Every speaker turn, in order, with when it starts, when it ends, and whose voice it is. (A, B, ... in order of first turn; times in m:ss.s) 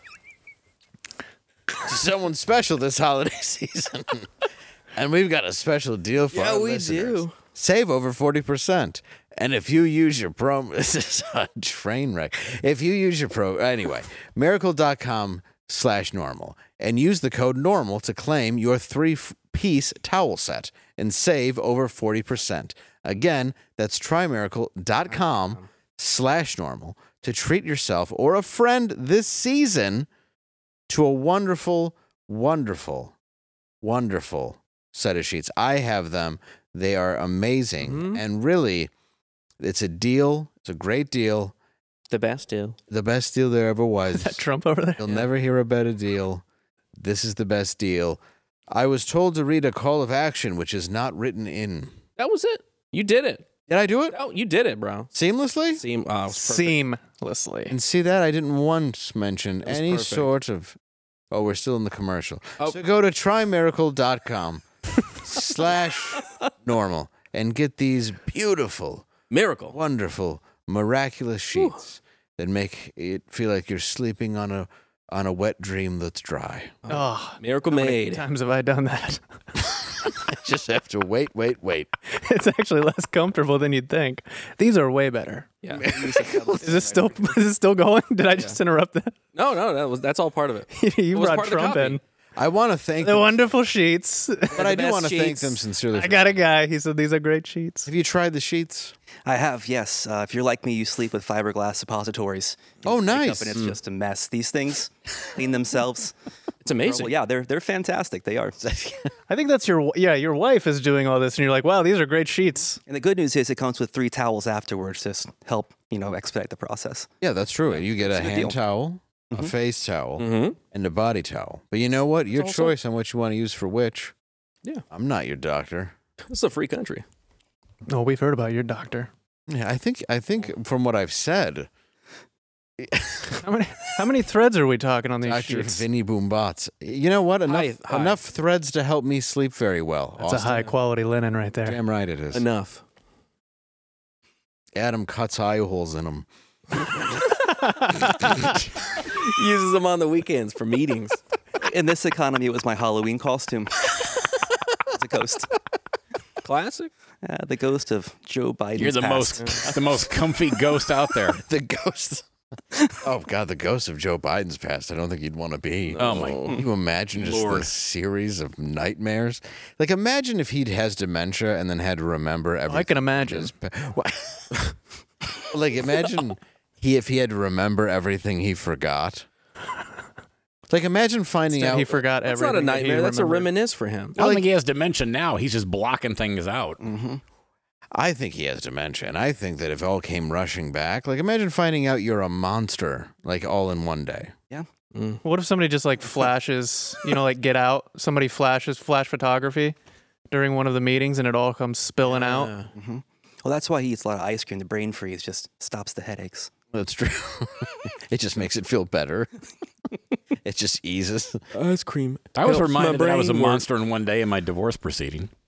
0:01.8-0:30.1 A
0:06.3-0:07.4 B
0:25.2-0:25.6 B
0:30.9-0:33.1 A
0:33.8-0:38.9 A
0:37.8-0:38.2 B
0:39.6-0:41.5 A
0:42.1-0:42.8 B
0:42.9-0:44.4 A
0:44.2-0:45.1 C
0:45.0-0:46.4 A
0:47.0-0:52.0 A
0:52.2-0:53.5 B
0:53.7-0:54.2 A
0:54.1-0:55.1 B
0:55.1-0:55.8 A
0:55.7-0:56.8 B
0:56.3-0:57.8 C
0:57.7-1:00.8 A
0:59.7-1:00.3 B
1:01.3-1:04.6 A
1:05.2-1:09.1 A
1:09.3-1:09.8 B
1:09.7-1:16.8 A
1:16.8-1:18.2 B
1:16.9-1:19.2 C
1:20.1-1:21.9 A
1:22.1-1:25.5 C
1:25.6-1:25.9 B
1:25.7-1:27.1 A
1:25.8-1:27.2 D
1:26.6-1:29.2 C
1:29.3-1:32.0 B
1:30.7-1:32.0 C
1:32.4-1:33.4 A
1:33.0-1:34.6 C
1:34.5-1:36.5 A
1:34.5-1:35.6 B
1:35.9-1:37.9 C
1:37.9-1:39.0 A
1:39.3-1:46.2 D
1:42.8-1:43.6 A
1:46.6-1:47.1 B
1:46.8-1:48.6 D
1:48.6-1:49.1 A
1:49.3-1:52.8 C
1:52.9-1:57.1 D
1:57.2-2:04.1 A
1:57.8-1:58.6 D
2:00.2-2:00.6 B
2:02.4-2:02.7 B
2:04.9-2:06.0 A
2:06.3-2:07.0 B
2:07.9-2:09.1 C
2:09.5-2:11.7 A
2:12.8-2:13.4 A
2:13.4-2:15.8 C
2:15.2-2:20.7 A
2:17.5-2:18.2 B
2:20.2-2:21.8 C
2:21.6-2:22.4 A
2:22.3-2:22.8 B
2:24.8-2:26.3 A
2:27.7-2:28.0 C
2:29.0-2:31.2 B
2:31.6-2:33.9 D
2:34.9-2:35.5 D
2:36.4-2:36.9 B
2:37.2-2:40.1 D
2:38.8-2:41.4 E
2:41.4-2:42.2 A
2:43.0-2:54.7 A
2:45.9-2:46.6 B
2:46.0-2:46.5 E
2:47.2-2:47.7 E
2:52.7-2:53.5 C
2:55.5-2:59.3 A
3:00.7-3:02.0 A
3:01.5-3:03.5 C
3:02.2-3:04.2 B
3:04.2-3:06.8 E
3:04.2-3:04.5 A
3:06.8-3:07.2 D
3:07.9-3:14.3 A
3:14.9-3:15.2 B
3:15.2-3:19.8 C
3:20.3-3:22.5 C
3:22.1-3:22.7 B
3:22.8-3:26.5 D
3:26.7-3:29.3 A
3:30.4-3:31.4 A
3:31.5-3:33.7 B
3:32.4-3:35.3 E